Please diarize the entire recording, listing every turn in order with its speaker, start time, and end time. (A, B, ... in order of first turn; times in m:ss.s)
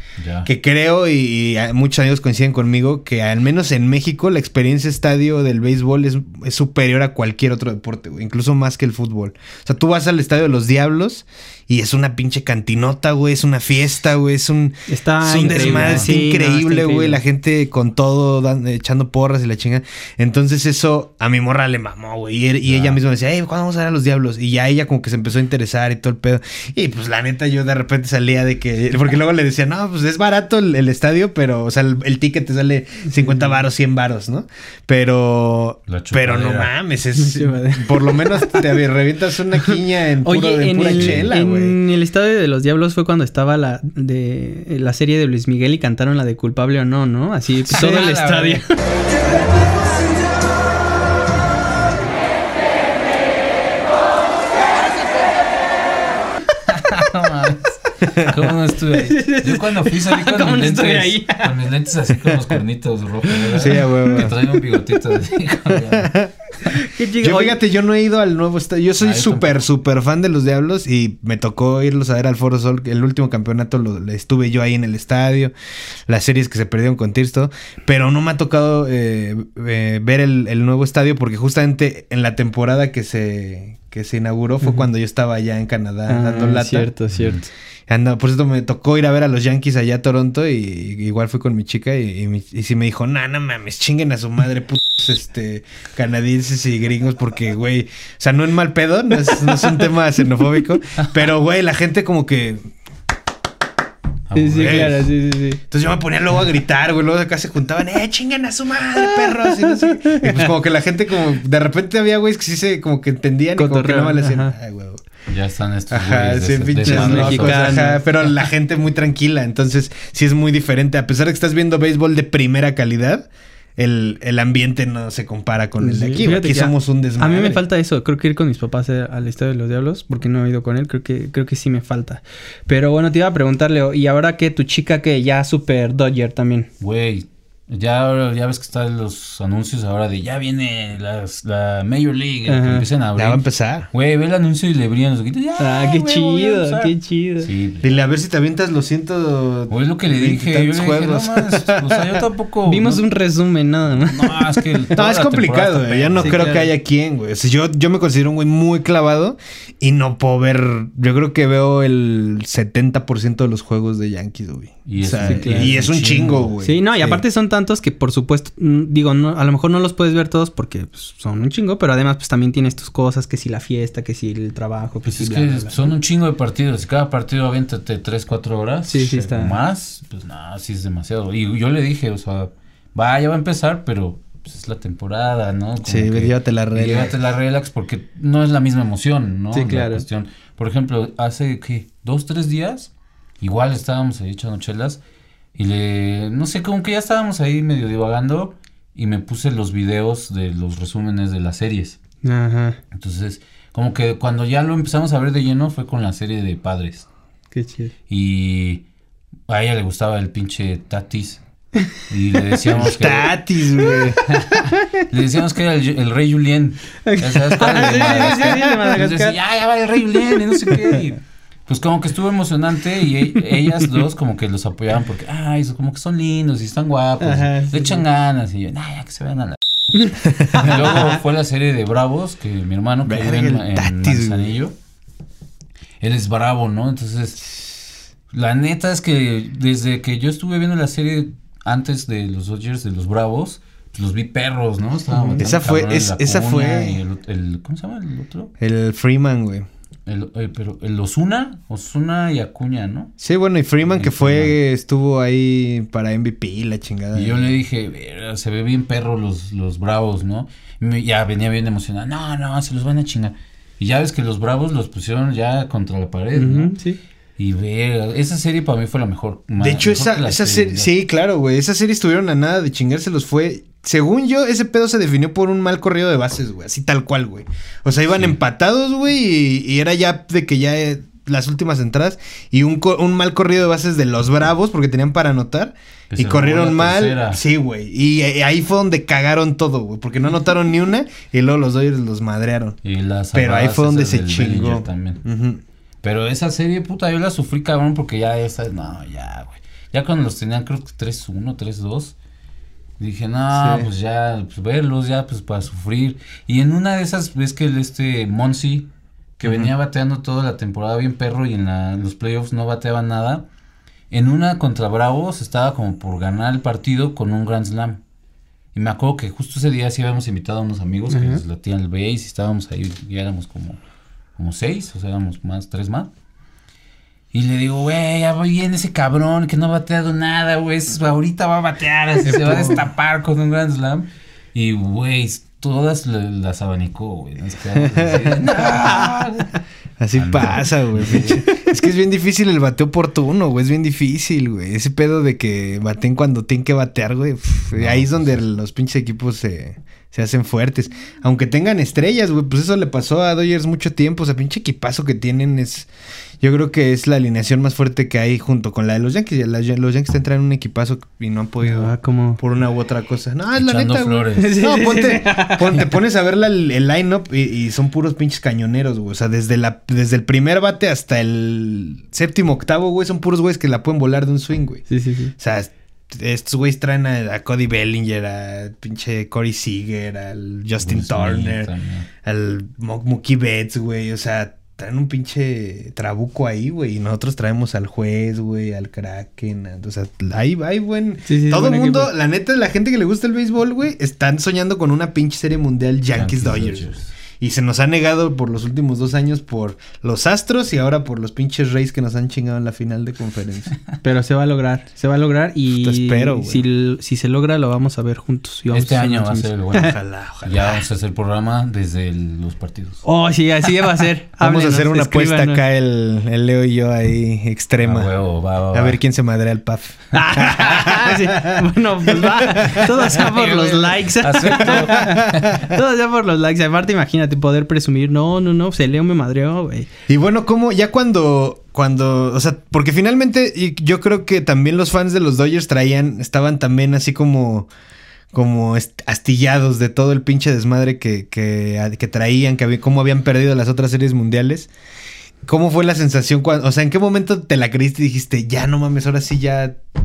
0:00.2-0:00.5 A
0:00.4-0:41.8 B
0:14.9-0:17.2 C
0:15.4-0:16.1 A
0:22.7-0:23.0 A
0:33.1-0:33.6 C
0:35.9-0:36.7 A
0:37.2-0:38.6 C
0:40.2-0:48.7 C
0:41.0-0:41.3 A
0:47.7-0:48.6 A
0:56.7-0:57.6 A
0:58.2-1:06.2 A
0:58.9-1:01.5 C
1:02.2-1:02.6 C
1:03.3-1:04.6 C
1:03.6-1:04.3 B
1:05.9-1:06.3 B
1:06.7-1:07.6 C
1:07.2-1:15.5 B
1:09.0-1:09.6 A
1:16.1-1:26.9 B
1:26.1-1:27.5 C
1:27.1-1:27.4 A
1:27.9-1:42.6 B
1:44.3-1:45.0 A
1:44.3-1:45.6 C
1:44.6-1:45.0 B
1:45.7-1:55.0 B
1:49.0-1:50.5 C
1:53.6-1:54.6 C
1:55.3-1:57.8 A
1:55.9-2:07.6 B
1:56.8-1:58.0 C
2:05.8-2:16.7 C
2:16.8-2:27.9 A
2:22.5-2:22.9 C
2:23.2-2:23.9 B
2:25.6-2:27.5 C
2:27.8-2:32.2 B
2:29.7-2:33.0 A
2:32.7-2:34.8 C
2:34.0-2:36.5 A
2:35.0-2:47.2 B
2:36.2-2:36.7 C
2:44.9-2:46.5 A
2:45.2-2:45.8 C
2:46.6-2:55.9 C
2:55.0-3:15.0 A
2:58.9-2:59.6 C
3:05.8-3:07.1 B
3:09.5-3:10.0 C
3:15.6-3:22.0 A
3:22.2-3:22.8 C
3:22.9-3:27.1 A
3:27.5-3:27.9 C
3:28.1-3:28.8 A
3:29.5-3:31.4 A
3:32.1-3:54.7 A
3:32.7-3:34.2 B
3:34.2-3:34.7 C
3:37.0-3:39.4 C
3:37.8-3:38.6 B
3:40.3-3:41.0 C
3:47.2-3:48.0 C
3:49.9-3:51.2 C
3:50.2-3:50.8 B
3:53.0-3:54.5 B
3:56.0-3:57.6 A
3:58.3-4:08.5 A
4:05.1-4:05.4 C
4:05.4-4:07.0 B
4:08.6-4:09.7 B
4:10.1-4:13.1 A
4:13.2-4:17.5 B
4:13.8-4:14.6 A
4:17.1-4:26.8 A
4:26.4-4:27.0 C
4:27.4-4:30.9 A
4:29.6-4:52.8 B
4:46.1-4:47.4 A
4:52.8-4:55.2 A
4:53.3-4:55.6 B
4:56.0-5:02.2 A
5:03.0-5:13.4 A
5:03.5-5:03.9 B
5:09.4-5:09.7 B
5:14.1-5:18.0 A
5:18.7-5:23.8 A
5:21.1-5:21.4 C
5:24.4-5:26.1 A
5:27.3-5:39.6 A
5:32.2-5:32.8 B
5:37.8-5:38.4 B
5:40.0-5:55.9 B
5:40.2-5:41.4 A
5:47.8-5:48.3 A
5:56.4-6:14.8 B
6:01.6-6:02.4 C
6:03.6-6:04.6 A
6:04.4-6:05.8 C
6:14.9-6:15.3 C
6:15.4-6:21.7 B
6:20.8-6:22.1 A
6:22.2-6:36.9 B
6:31.3-6:32.1 C
6:36.1-6:37.1 A
6:37.4-6:43.7 B
6:44.0-6:49.9 C
6:45.8-6:46.7 B
6:48.7-6:53.0 A
6:49.8-6:50.8 B
6:53.0-6:55.6 C
6:54.4-6:58.1 B
6:57.8-6:59.0 A
6:58.7-7:02.9 B
7:00.1-7:09.9 C
7:02.7-7:05.6 A
7:04.6-7:05.6 B
7:10.1-7:17.7 B
7:18.3-7:24.7 B
7:25.5-7:29.8 B